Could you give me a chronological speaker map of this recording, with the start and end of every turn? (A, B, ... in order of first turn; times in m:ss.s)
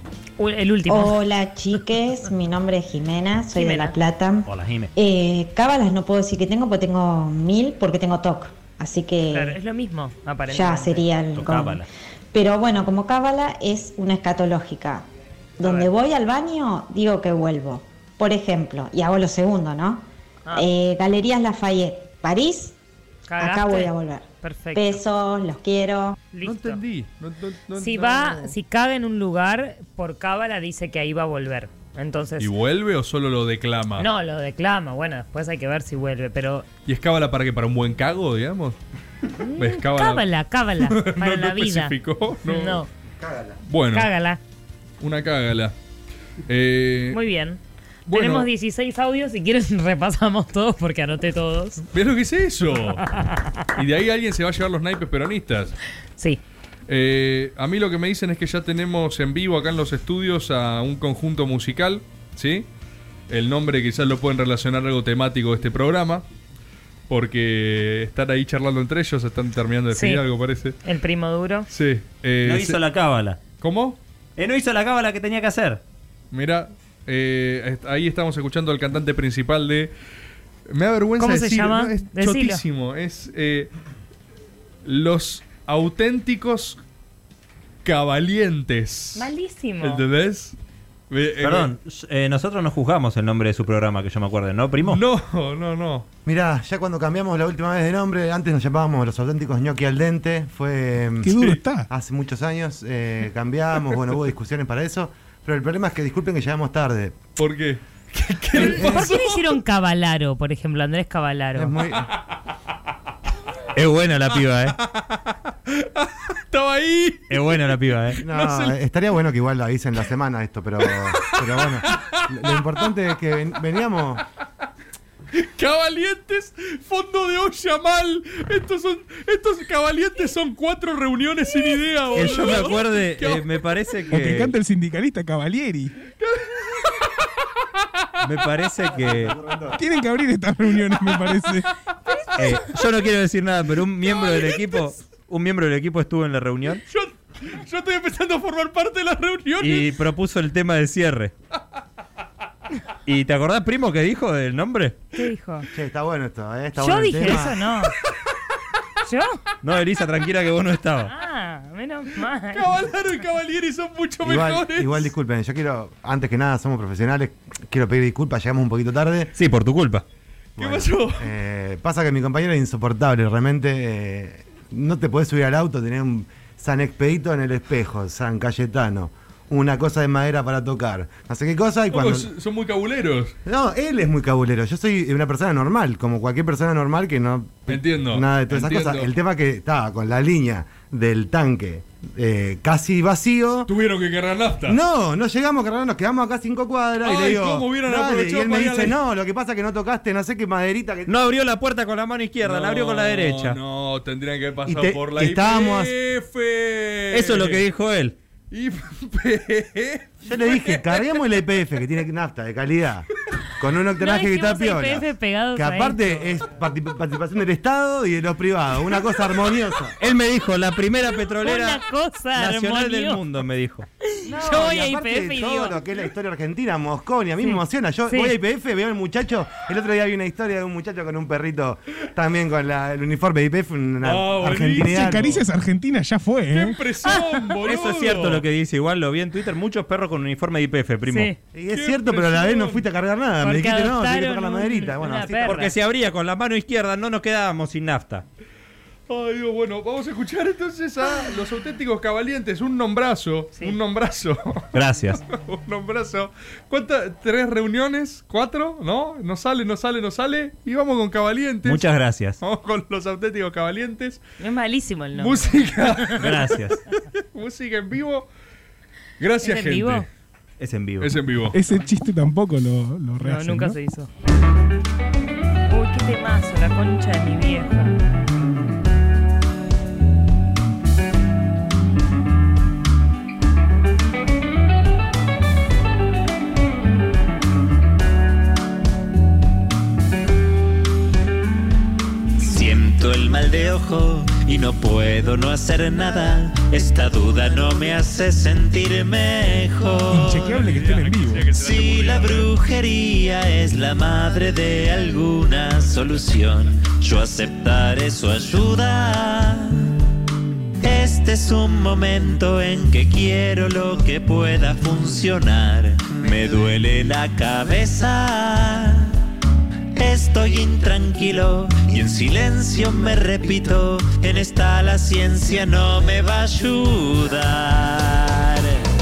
0:00.4-0:01.2 A
0:00.9-0:09.6 B
0:03.5-0:03.9 A
0:04.4-0:04.9 C
0:09.3-0:11.0 A
0:10.5-0:15.0 B
0:11.3-0:11.9 C
0:15.6-0:22.7 B
0:15.6-0:15.9 A
0:23.3-0:25.0 A
0:23.4-0:26.2 B
0:26.3-0:26.8 A
0:26.4-0:28.5 D
0:27.8-0:32.5 A
0:32.4-0:34.1 D
0:34.0-0:36.7 A
0:36.8-0:38.8 D
0:39.4-0:42.9 A
0:39.6-0:40.2 D
0:40.8-0:42.8 D
0:43.2-0:43.6 E
0:43.6-0:44.1 D
0:43.9-0:44.4 A
0:45.0-0:45.7 D
0:46.5-0:47.2 D
0:47.1-0:47.6 A
0:48.1-0:48.5 D
0:48.1-0:51.8 A
0:51.9-0:53.0 D
0:53.0-0:53.5 A
0:53.8-0:55.8 D
0:56.9-1:02.6 D
1:03.3-1:06.2 D
1:07.1-1:10.8 D
1:09.9-1:10.2 A
1:10.8-1:11.7 A
1:11.7-1:12.8 D
1:12.4-1:13.4 C
1:13.6-1:14.0 D
1:14.4-1:15.8 C
1:16.3-1:19.9 D
1:20.7-1:23.7 D
1:21.2-1:22.6 A
1:24.8-1:26.8 D
1:27.8-1:29.3 D
1:29.1-1:30.0 A
1:29.8-1:30.6 D
1:31.1-1:31.7 D
1:31.4-1:35.0 C
1:34.8-1:36.0 D
1:36.2-1:41.4 E
1:41.2-1:41.9 F
1:41.9-1:47.2 E
1:47.4-1:49.4 D
1:48.5-1:51.7 A
1:48.6-1:49.1 E
1:51.6-1:52.1 E
1:53.7-1:54.8 C
1:54.8-1:58.8 D
1:57.3-1:58.2 C
1:58.2-2:04.2 E
2:00.8-2:02.9 D
2:05.3-2:13.5 D
2:12.1-2:14.5 C
2:14.1-2:15.9 F
2:18.2-2:19.4 C
2:18.9-2:19.8 E
2:19.7-2:21.7 F
2:22.4-2:26.8 C
2:24.0-2:24.8 D
2:26.9-2:30.0 D
2:29.6-2:31.3 C
2:33.0-2:35.0 C
2:35.1-2:35.7 A
2:35.7-2:37.6 E
2:36.8-2:37.9 A
2:39.0-2:39.4 A
2:39.6-2:41.1 C
2:41.0-2:42.7 A
2:42.5-2:45.1 D
2:44.2-2:49.3 E
2:49.4-2:50.0 C
2:50.6-2:51.3 D
2:50.6-3:02.3 E
3:01.9-3:03.3 D
3:03.4-3:13.7 E
3:07.7-3:09.1 D
3:13.7-3:14.8 D
3:14.7-3:21.1 E
3:17.0-3:19.0 D
3:21.1-3:23.6 C
3:22.4-3:27.6 D
3:24.6-3:25.9 E
3:27.1-3:28.1 C
3:28.5-3:31.2 D
3:30.2-3:33.1 E
3:33.6-3:40.0 E
3:34.0-3:36.3 A
3:40.0-3:41.8 C
3:41.4-3:43.2 A
3:42.3-3:43.8 C
3:44.2-3:45.8 A
3:44.3-3:55.3 E
3:47.4-3:48.3 A
3:54.0-3:55.4 D
3:54.8-3:56.8 F
3:56.5-3:58.4 D
3:57.0-3:57.3 A
3:57.6-4:01.3 C
4:01.1-4:01.4 A
4:01.5-4:05.6 E
4:01.7-4:02.8 D
4:03.4-4:05.7 A
4:05.3-4:08.2 C
4:09.1-4:14.7 D
4:14.7-4:15.2 C
4:15.2-4:21.8 D
4:21.6-4:22.4 C
4:22.4-4:24.2 D
4:24.4-4:25.6 A
4:25.1-4:26.6 D
4:26.2-4:26.8 C
4:27.3-4:28.3 D
4:29.2-4:30.0 D
4:29.4-4:30.0 A
4:30.6-4:31.1 C
4:31.0-4:31.5 D
4:31.5-4:33.8 F
4:33.2-4:34.1 A
4:35.7-4:37.9 A
4:52.4-5:00.6 G
5:00.1-5:01.5 F
5:00.4-5:02.5 D
5:01.6-5:09.8 G
5:10.8-5:19.2 G
5:19.9-5:28.8 G